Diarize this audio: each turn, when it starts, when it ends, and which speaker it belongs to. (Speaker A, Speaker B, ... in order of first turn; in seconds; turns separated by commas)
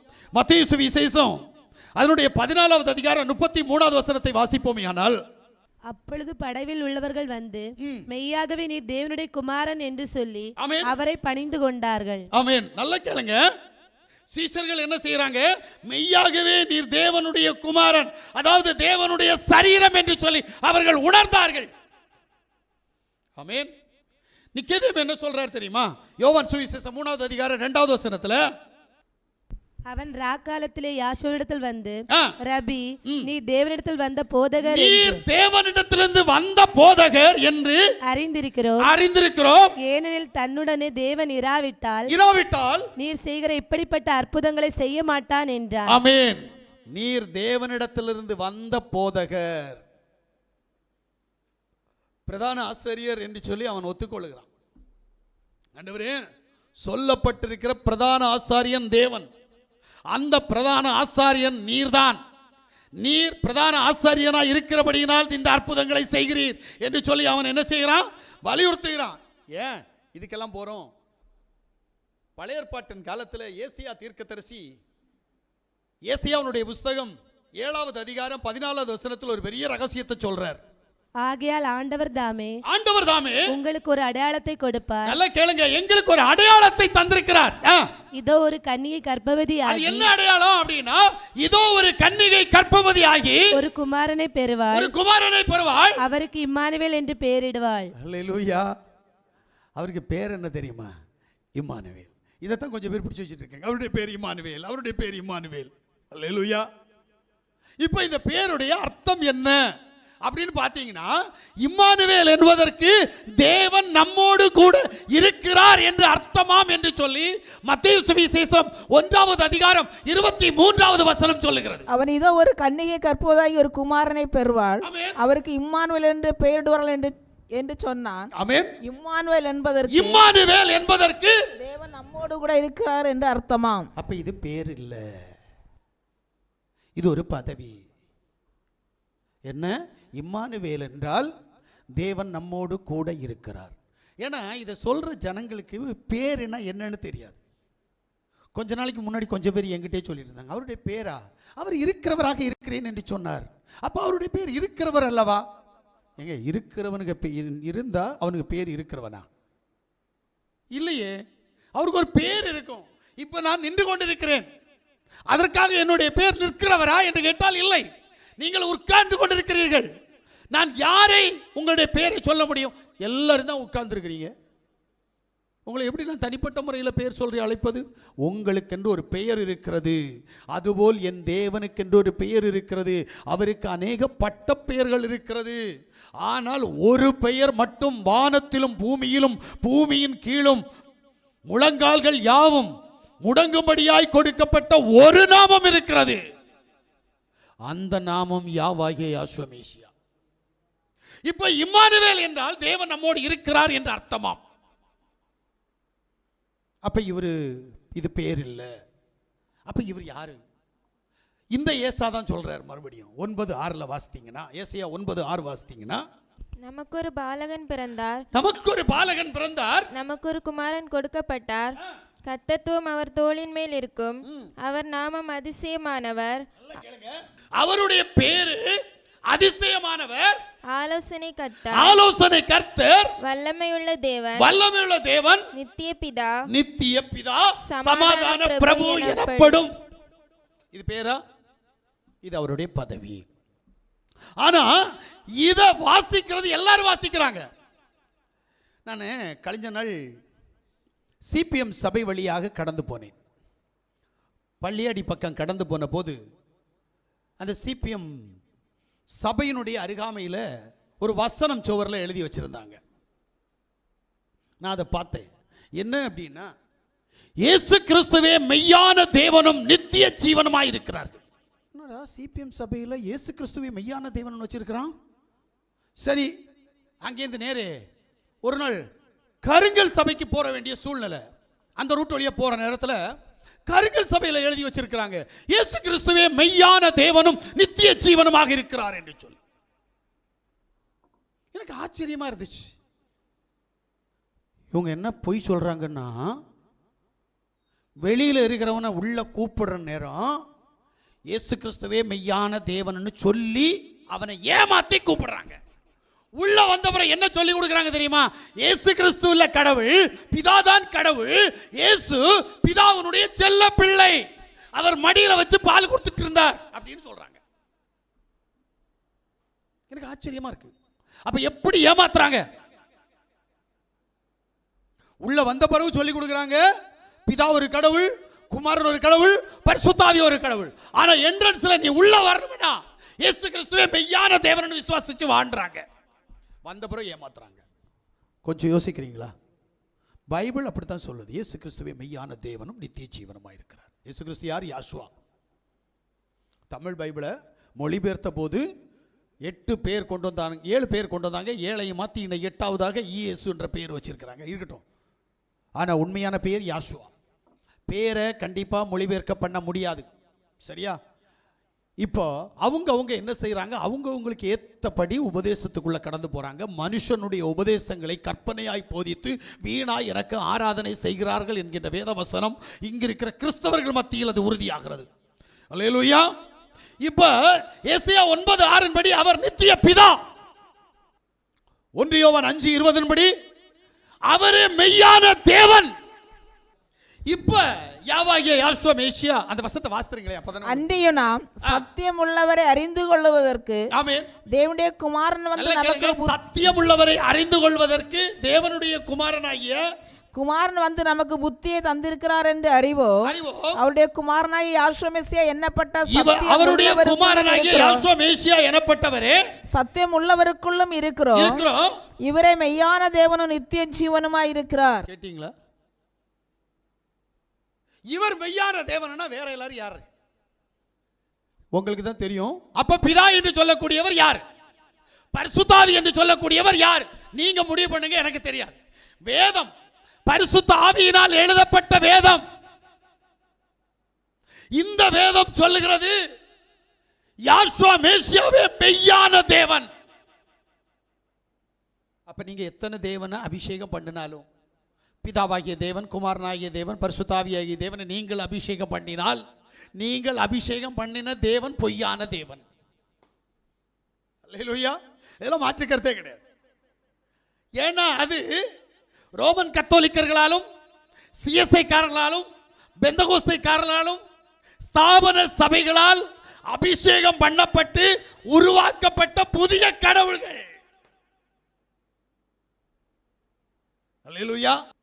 Speaker A: 0.3-1.4, Speaker A: 2.0-5.2, Speaker B: 5.9-12.2, Speaker A: 10.6-10.9, Speaker A: 12.3-13.4, Speaker A: 14.3-21.7, Speaker A: 23.4-23.7, Speaker A: 24.5-28.4, Speaker B: 29.9-35.2, Speaker A: 34.6-37.8, Speaker B: 38.0-38.9, Speaker A: 38.8-39.7, Speaker B: 39.8-42.1, Speaker A: 42.1-42.9, Speaker B: 43.0-46.0, Speaker A: 45.9-46.4, Speaker A: 46.9-49.8, Speaker A: 52.3-54.5, Speaker A: 55.8-56.2, Speaker A: 56.8-59.3, Speaker A: 60.1-62.2, Speaker A: 63.0-70.9, Speaker A: 72.4-74.7, Speaker A: 76.1-80.6, Speaker B: 81.2-82.5, Speaker A: 82.7-83.5, Speaker B: 83.5-85.1, Speaker A: 85.0-87.8, Speaker B: 88.2-90.1, Speaker A: 89.7-93.5, Speaker B: 93.5-94.9, Speaker A: 94.7-96.0, Speaker B: 96.0-97.9, Speaker A: 98.0-98.7, Speaker A: 99.8-100.9, Speaker A: 101.5-106.7, Speaker A: 107.8-109.6, Speaker A: 110.2-121.9, Speaker C: 121.9-128.3, Speaker A: 124.8-125.2, Speaker A: 128.3-128.7, Speaker C: 128.8-130.2, Speaker A: 129.9-131.4, Speaker C: 131.6-133.9, Speaker A: 133.9-135.0, Speaker A: 137.0-137.8, Speaker A: 139.5-141.3, Speaker A: 142.0-147.4, Speaker A: 148.6-155.4, Speaker A: 156.2-159.2, Speaker A: 160.7-161.2, Speaker A: 161.8-164.5, Speaker A: 165.3-167.8, Speaker A: 168.4-169.9, Speaker A: 170.5-174.3, Speaker A: 175.7-180.0, Speaker A: 180.5-185.6, Speaker A: 186.2-190.6, Speaker A: 191.5-192.7, Speaker A: 193.2-196.2, Speaker A: 197.7-199.9, Speaker A: 201.2-204.4, Speaker A: 206.8-208.7, Speaker A: 209.7-210.4, Speaker A: 211.5-216.0, Speaker D: 216.6-218.2, Speaker A: 218.3-219.9, Speaker D: 219.9-226.4, Speaker A: 224.2-224.5, Speaker A: 226.6-230.4, Speaker D: 230.7-232.0, Speaker A: 231.7-233.1, Speaker D: 233.2-234.5, Speaker A: 234.3-235.5, Speaker D: 235.5-236.4, Speaker A: 236.5-239.7, Speaker D: 237.7-239.6, Speaker A: 240.7-241.2, Speaker A: 242.2-243.3, Speaker A: 244.4-244.7, Speaker A: 245.4-247.4, Speaker A: 248.8-249.9, Speaker A: 251.3-253.1, Speaker A: 254.6-256.2, Speaker A: 257.4-258.2, Speaker A: 259.2-260.4, Speaker A: 261.0-262.8, Speaker A: 264.6-266.5, Speaker A: 267.4-271.2, Speaker A: 271.7-274.9, Speaker A: 276.0-276.3, Speaker A: 277.0-277.7, Speaker A: 278.4-278.8, Speaker A: 279.4-281.2, Speaker A: 281.8-283.0, Speaker A: 283.7-289.4, Speaker A: 291.5-292.7, Speaker A: 294.7-296.4, Speaker A: 298.0-300.4, Speaker A: 301.3-305.6, Speaker A: 306.4-314.2, Speaker A: 314.7-317.4, Speaker A: 319.9-320.7, Speaker A: 321.2-322.4, Speaker A: 325.2-326.6, Speaker A: 327.3-335.8, Speaker A: 336.6-337.6, Speaker A: 338.4-339.3, Speaker A: 340.3-345.1, Speaker A: 346.7-348.6, Speaker A: 349.5-354.8, Speaker A: 355.8-357.1, Speaker A: 357.9-360.1, Speaker A: 360.6-361.0, Speaker A: 362.0-375.1, Speaker A: 375.7-376.3, Speaker A: 377.0-380.2, Speaker A: 381.9-383.3, Speaker A: 384.3-385.9, Speaker A: 387.3-390.8, Speaker C: 390.6-393.8, Speaker A: 393.9-394.3, Speaker C: 394.5-396.4, Speaker A: 395.6-399.8, Speaker C: 400.3-403.2, Speaker A: 403.2-403.8, Speaker C: 403.7-408.1, Speaker A: 406.1-409.4, Speaker C: 409.7-411.6, Speaker A: 411.3-411.9, Speaker C: 412.2-415.1, Speaker A: 415.1-415.5, Speaker A: 418.1-420.0, Speaker A: 421.7-424.4, Speaker A: 425.3-429.7, Speaker A: 430.3-432.4, Speaker A: 434.8-436.1, Speaker A: 437.4-439.9, Speaker A: 442.3-444.4, Speaker A: 445.2-449.4, Speaker A: 450.0-452.6, Speaker A: 454.5-456.4, Speaker A: 457.8-458.6, Speaker A: 459.4-460.6, Speaker A: 461.4-462.5, Speaker A: 463.0-464.2, Speaker A: 464.8-470.7, Speaker A: 474.2-474.8